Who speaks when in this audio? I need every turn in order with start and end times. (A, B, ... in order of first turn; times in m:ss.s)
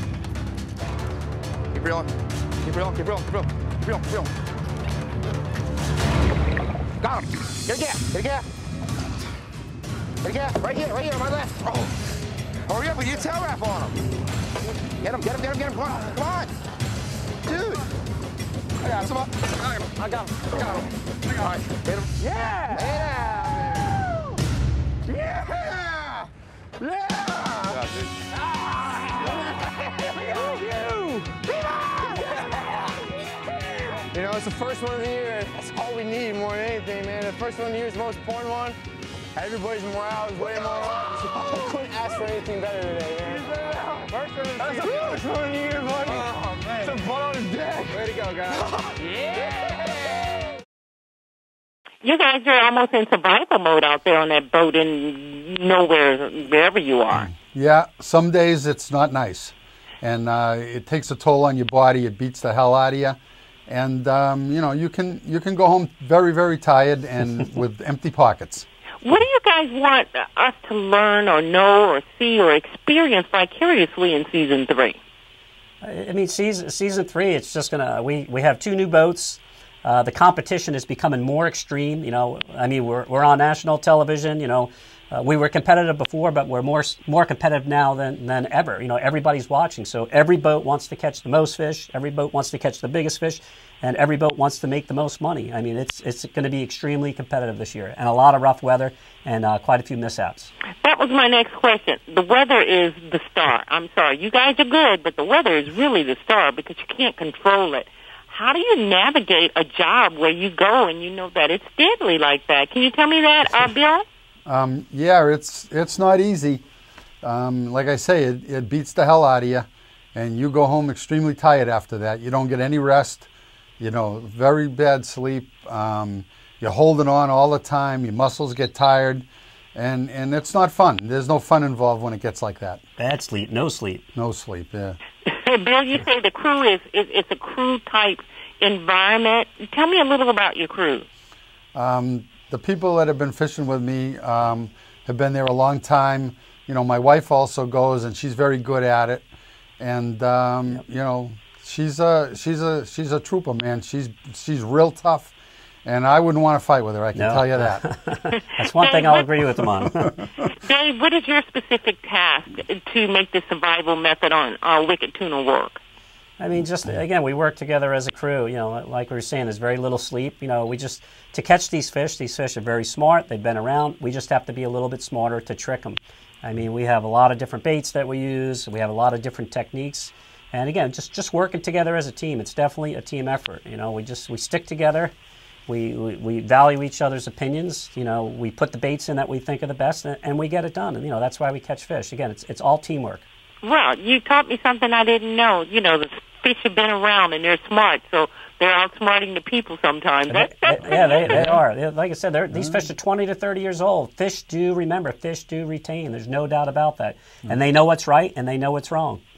0:01.7-0:04.3 A
0:07.0-0:08.5 A
0:10.2-0:11.9 A
0:12.7-0:14.0 A
0:15.0-0:16.5 A
0:17.5-0:17.8 A
0:18.8-0:22.2 A
0:22.2-0:23.6 B
0:22.8-0:24.0 A
0:25.2-0:25.6 A
0:25.2-0:26.1 B
0:26.8-0:27.8 B
0:27.6-0:28.1 A
0:28.8-0:32.9 B
0:33.9-0:38.8 B
0:39.4-0:50.4 B
0:44.6-0:45.2 A
0:46.1-0:46.9 A
0:52.0-0:57.3 C
0:57.3-1:08.7 D
1:09.0-1:15.0 C
1:15.8-1:40.5 E
1:40.8-1:54.0 C
1:54.5-1:56.6 D
1:57.2-2:03.3 D
2:03.8-2:12.8 D
2:13.0-2:14.0 E
2:14.2-2:15.0 D
2:15.3-2:21.1 C
2:21.8-2:29.2 D
2:29.8-2:35.3 D
2:35.8-2:37.8 D
2:37.2-2:40.2 E
2:38.6-2:39.3 C
2:40.5-2:45.8 C
2:46.4-3:05.1 E
3:05.7-3:13.2 E
3:13.6-3:21.6 C
3:20.3-3:29.2 E